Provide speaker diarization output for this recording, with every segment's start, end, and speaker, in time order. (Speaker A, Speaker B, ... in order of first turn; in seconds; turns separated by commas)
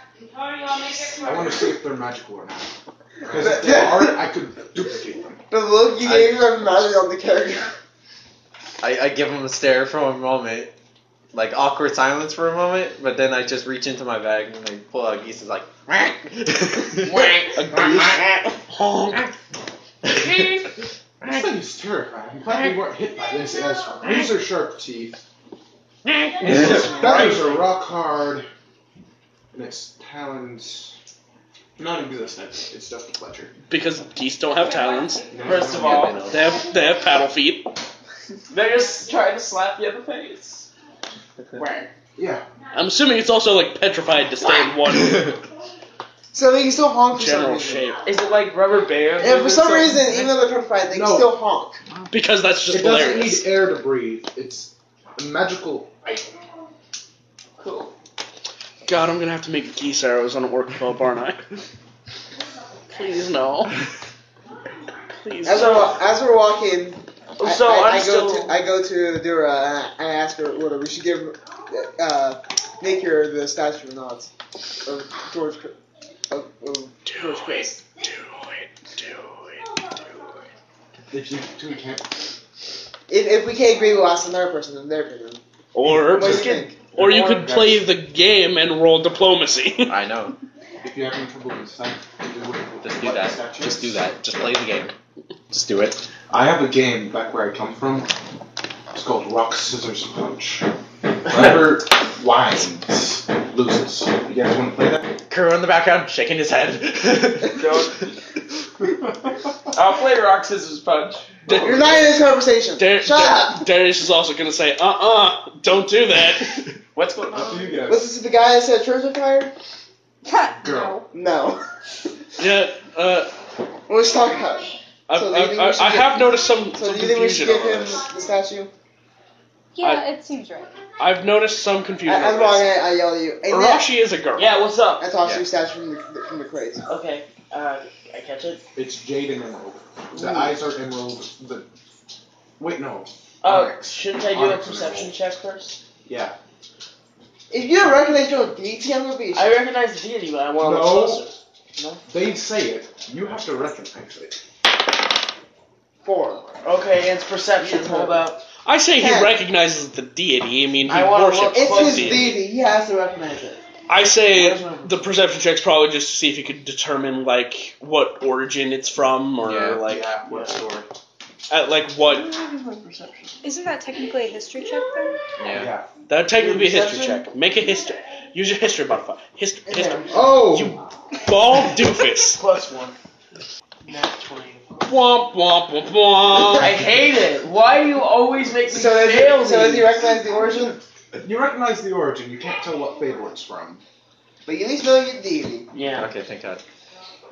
Speaker A: 0.3-1.2, Speaker B: 1.1-5.4, Speaker C: 3.3-4.2, Speaker C: 5.5-7.7, Speaker D: 6.0-6.4, Speaker D: 8.8-10.7, Speaker D: 11.3-18.2, Speaker A: 17.1-17.8, Speaker B: 17.6-18.1, Speaker E: 17.6-18.2, Speaker E: 18.7-19.2, Speaker A: 20.2-20.6, Speaker B: 21.2-25.2, Speaker D: 26.1-26.9, Speaker A: 26.4-27.7, Speaker B: 26.4-28.5, Speaker B: 29.5-30.9, Speaker B: 31.8-33.6, Speaker E: 33.7-35.4, Speaker B: 35.3-36.2, Speaker A: 35.4-36.3, Speaker D: 35.7-36.6, Speaker E: 36.2-37.7, Speaker A: 38.5-40.7, Speaker A: 41.5-41.9, Speaker B: 42.2-42.4, Speaker E: 42.7-45.4, Speaker C: 46.3-47.9, Speaker E: 47.1-48.0, Speaker A: 48.0-50.2, Speaker C: 49.2-51.8, Speaker B: 50.9-51.3, Speaker E: 52.1-53.5, Speaker B: 52.7-56.2, Speaker A: 57.6-57.9, Speaker E: 58.8-61.5, Speaker E: 62.9-63.8, Speaker E: 65.2-65.9, Speaker C: 65.4-74.3, Speaker A: 65.5-66.0, Speaker A: 67.4-68.5, Speaker C: 74.8-75.7, Speaker C: 76.3-77.8, Speaker E: 77.1-80.2, Speaker B: 81.1-82.1, Speaker C: 83.1-85.4, Speaker E: 85.7-90.0, Speaker C: 86.1-86.7, Speaker B: 86.2-87.8, Speaker A: 86.2-86.7, Speaker D: 89.9-90.3, Speaker B: 90.8-94.0, Speaker D: 92.8-94.9, Speaker D: 95.5-96.1, Speaker B: 96.3-98.1, Speaker B: 98.9-100.7, Speaker B: 101.2-105.0, Speaker D: 105.3-107.9, Speaker A: 107.5-108.1, Speaker A: 109.7-111.8, Speaker E: 111.5-112.2, Speaker C: 111.5-113.7, Speaker E: 112.8-116.7, Speaker A: 116.9-117.9, Speaker B: 117.3-118.0, Speaker C: 117.9-119.5, Speaker F: 120.2-121.0, Speaker B: 120.6-120.9, Speaker C: 121.1-121.6, Speaker E: 122.4-123.3, Speaker C: 123.9-128.7, Speaker E: 125.1-128.0, Speaker F: 129.7-130.7, Speaker E: 131.0-132.7, Speaker C: 132.0-133.9, Speaker E: 133.5-134.5, Speaker A: 134.3-135.1, Speaker C: 135.0-136.9, Speaker A: 136.9-138.6, Speaker B: 138.7-141.7, Speaker A: 140.1-140.5, Speaker B: 142.6-145.1, Speaker A: 143.4-145.8, Speaker B: 146.1-146.3, Speaker C: 147.5-149.5, Speaker A: 149.3-152.0, Speaker B: 150.6-151.2, Speaker B: 152.1-154.4, Speaker C: 156.0-156.5, Speaker A: 156.6-158.4, Speaker C: 157.6-158.2, Speaker E: 158.6-162.4, Speaker C: 159.0-159.3, Speaker A: 160.8-162.4, Speaker C: 161.5-163.6, Speaker E: 163.9-170.2, Speaker A: 164.2-165.0, Speaker D: 169.4-169.8, Speaker B: 169.9-170.9, Speaker A: 170.3-170.6, Speaker E: 171.5-172.3, Speaker A: 172.0-173.4, Speaker F: 173.4-175.2, Speaker D: 175.4-175.7, Speaker B: 175.4-175.9, Speaker E: 176.1-182.4, Speaker C: 176.4-176.7, Speaker A: 176.6-177.2, Speaker C: 179.7-180.8, Speaker B: 180.2-180.7, Speaker A: 182.3-182.9, Speaker A: 183.8-184.8, Speaker E: 184.8-186.8, Speaker A: 186.4-190.0, Speaker C: 188.7-190.8, Speaker B: 191.2-193.8, Speaker C: 194.4-195.7, Speaker A: 195.7-196.1, Speaker D: 195.9-196.6